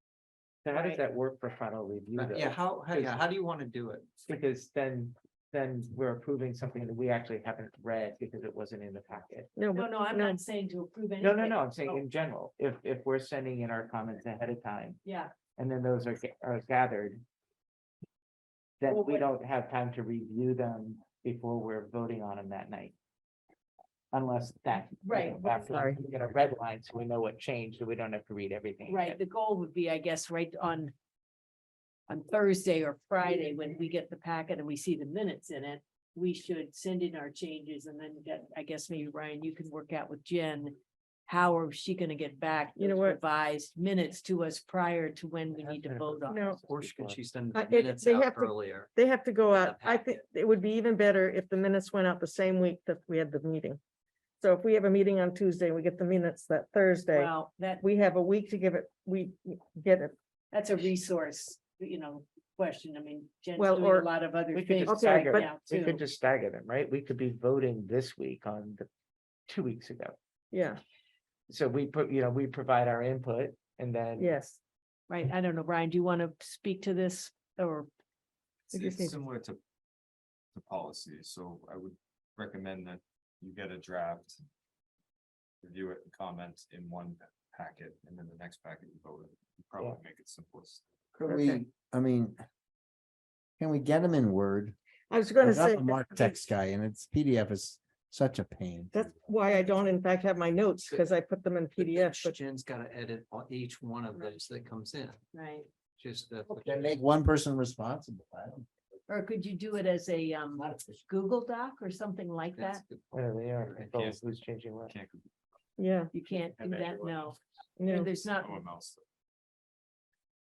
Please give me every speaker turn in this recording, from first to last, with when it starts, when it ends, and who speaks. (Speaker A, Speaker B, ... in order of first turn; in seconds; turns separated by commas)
Speaker A: 0.7-3.2, Speaker B: 0.7-1.0, Speaker C: 2.1-4.3, Speaker A: 4.3-9.5, Speaker D: 9.6-10.4, Speaker B: 9.7-12.0, Speaker A: 11.2-15.0, Speaker B: 15.1-15.3, Speaker A: 15.6-17.2, Speaker A: 18.8-22.9, Speaker B: 18.9-19.3, Speaker A: 24.1-29.2, Speaker B: 25.0-25.9, Speaker D: 25.7-26.0, Speaker B: 28.9-30.9, Speaker B: 32.1-40.8, Speaker B: 41.3-46.5, Speaker D: 42.8-43.2, Speaker A: 45.5-47.2, Speaker D: 46.3-46.6, Speaker C: 46.6-48.9, Speaker D: 47.5-53.8, Speaker C: 49.5-50.2, Speaker D: 54.4-60.1, Speaker B: 57.1-57.8, Speaker B: 60.5-66.0, Speaker D: 63.6-64.1, Speaker A: 64.5-68.9, Speaker D: 64.9-65.5, Speaker A: 69.5-70.2, Speaker D: 70.5-70.8, Speaker A: 71.5-74.3, Speaker D: 74.2-74.6, Speaker B: 75.1-77.9, Speaker D: 78.7-79.2, Speaker E: 78.7-79.6, Speaker E: 80.5-84.4, Speaker E: 85.6-90.8, Speaker F: 91.1-92.4, Speaker D: 91.3-91.6, Speaker F: 93.6-94.8, Speaker D: 95.1-96.4, Speaker F: 95.4-99.1, Speaker D: 98.9-102.4, Speaker C: 101.8-105.2, Speaker B: 105.3-105.7, Speaker C: 106.0-107.0, Speaker F: 106.5-108.7, Speaker B: 109.1-112.8, Speaker C: 112.5-114.2, Speaker A: 113.1-114.9, Speaker E: 114.8-115.3, Speaker D: 115.8-116.1, Speaker B: 116.1-118.6, Speaker E: 116.6-117.3, Speaker D: 117.8-118.1, Speaker E: 118.3-119.0